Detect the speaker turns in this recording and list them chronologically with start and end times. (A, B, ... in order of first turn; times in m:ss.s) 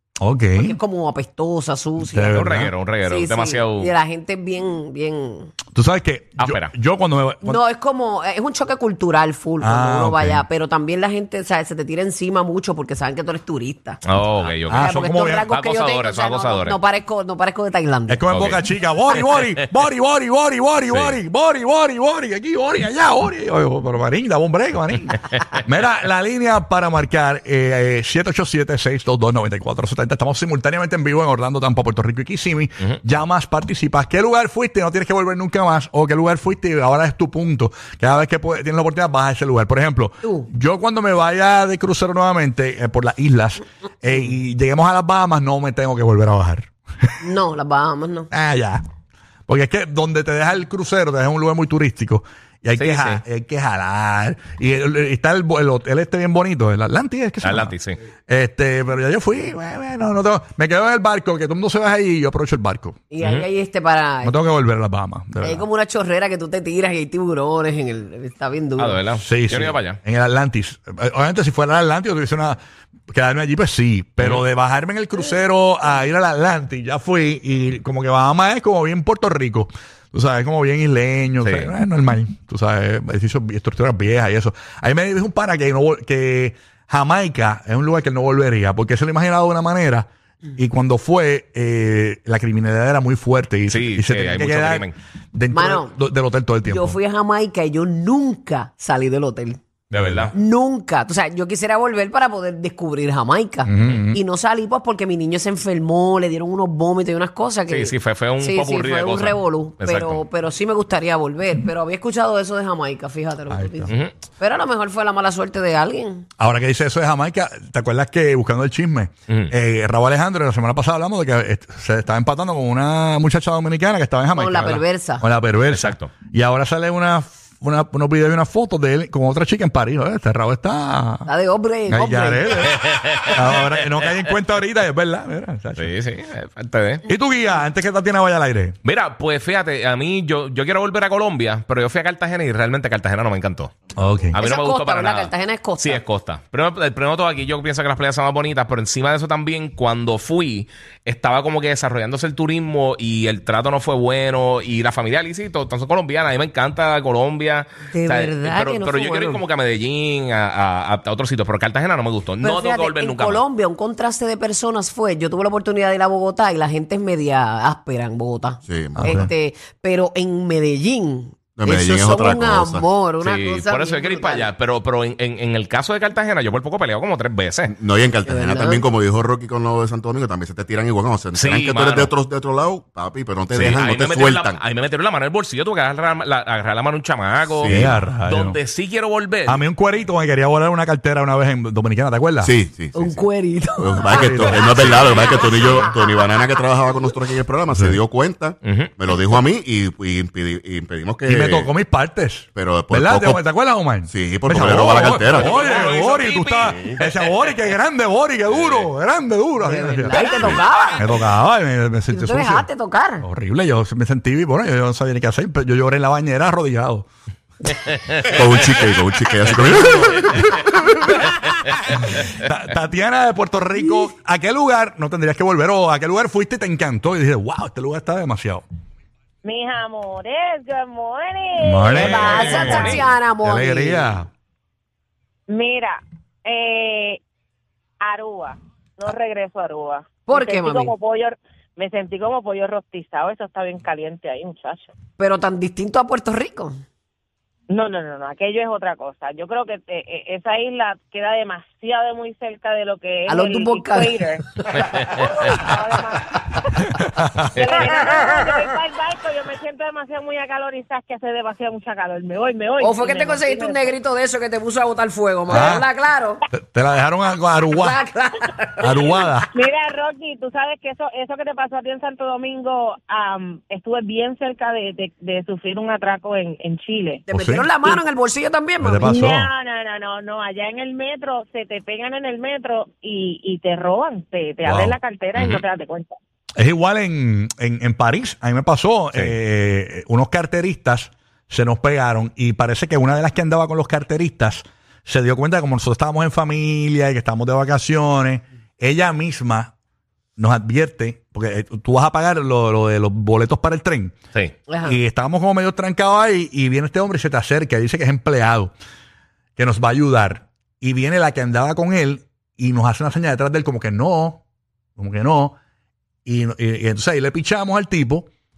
0:00.2-0:00.8 A
0:00.5-0:02.4 B
0:02.0-0:02.7 A
0:02.3-0:03.9 C
0:03.0-0:05.5 B
0:05.7-0:07.6 A
0:06.4-0:06.7 C
0:07.4-0:14.0 B
0:09.6-0:10.4 A
0:14.0-0:16.8 C
0:14.7-0:15.5 A
0:14.7-0:18.2 B
0:18.1-0:47.2 A
0:18.3-0:18.6 C
0:20.9-0:21.2 C
0:47.2-0:48.3 B
0:48.3-0:48.8 A
0:49.5-0:57.7 A
0:52.8-0:53.2 C
0:57.4-0:58.0 C
0:58.3-1:03.0 A
1:03.1-1:04.3 B
1:03.2-1:03.5 C
1:04.2-1:05.6 A
1:05.4-1:09.0 B
1:08.8-1:10.0 C
1:09.2-1:12.6 A
1:13.1-1:37.0 A
1:14.2-1:14.4 C
1:21.4-1:21.7 C
1:33.7-1:35.0 C
1:35.5-1:35.9 B
1:36.7-1:39.6 B
1:39.9-1:40.3 C
1:39.9-1:40.3 A
1:40.3-1:56.2 B
1:43.6-1:44.2 A
1:47.7-1:50.2 C
1:53.5-1:54.0 A
1:56.4-2:11.3 A
2:04.3-2:05.2 B
2:05.7-2:06.1 C
2:11.2-2:12.5 B
2:11.9-2:15.9 A
2:12.7-2:14.0 C
2:15.8-2:17.0 C
2:17.1-2:18.8 A
2:18.8-2:23.7 C
2:24.0-2:24.4 A
2:24.3-2:43.4 C
2:24.4-2:26.0 B
2:37.9-2:39.4 B
2:42.4-2:54.5 B
2:48.6-2:49.2 D
2:49.0-2:49.3 A
2:51.6-2:52.8 D
2:53.2-2:57.7 C
2:57.6-3:04.6 D
2:58.2-2:58.8 B
3:01.3-3:02.1 C
3:03.5-3:09.6 C
3:07.5-3:08.0 D
3:07.7-3:08.6 A
3:09.4-3:12.5 A
3:12.4-3:13.2 D
3:12.9-3:16.6 B
3:13.8-3:21.7 D
3:14.0-3:14.9 A
3:14.8-3:15.6 C
3:17.7-3:18.0 A
3:18.6-3:18.9 C
3:21.2-3:32.7 A
3:22.5-3:23.4 D
3:24.1-3:25.7 D
3:24.6-3:27.6 C
3:26.6-3:26.9 D
3:28.5-3:28.9 C
3:29.6-3:31.2 B
3:32.1-3:33.3 B
3:33.2-3:37.0 A
3:37.8-3:38.7 C
3:38.3-3:40.7 D
3:39.5-3:40.2 C
3:42.1-3:48.6 A
3:49.4-3:52.9 E
3:51.6-3:54.3 A
3:51.9-3:53.1 C
3:52.0-3:54.1 B
3:55.5-3:57.2 E
3:58.0-4:04.9 E
4:00.3-4:00.9 B
4:05.2-4:06.8 B
4:07.7-4:16.9 E
4:13.3-4:14.2 B
4:14.7-4:15.1 B
4:17.4-4:23.9 E
4:22.8-4:26.4 B
4:25.5-4:25.9 A
4:26.6-4:28.0 A
4:27.7-4:29.0 B
4:28.8-4:29.5 A
4:29.5-4:37.2 E
4:37.3-4:39.1 B
4:37.3-4:37.9 A
4:38.8-4:39.5 A
4:39.0-4:46.1 E
4:44.6-4:44.9 A
4:45.3-4:45.6 C
4:46.6-4:59.7 A
5:00.4-5:04.2 A
5:04.7-5:05.0 B
5:04.8-5:08.7 A
5:09.6-5:14.4 A
5:15.0-5:15.6 A
5:16.2-5:18.3 A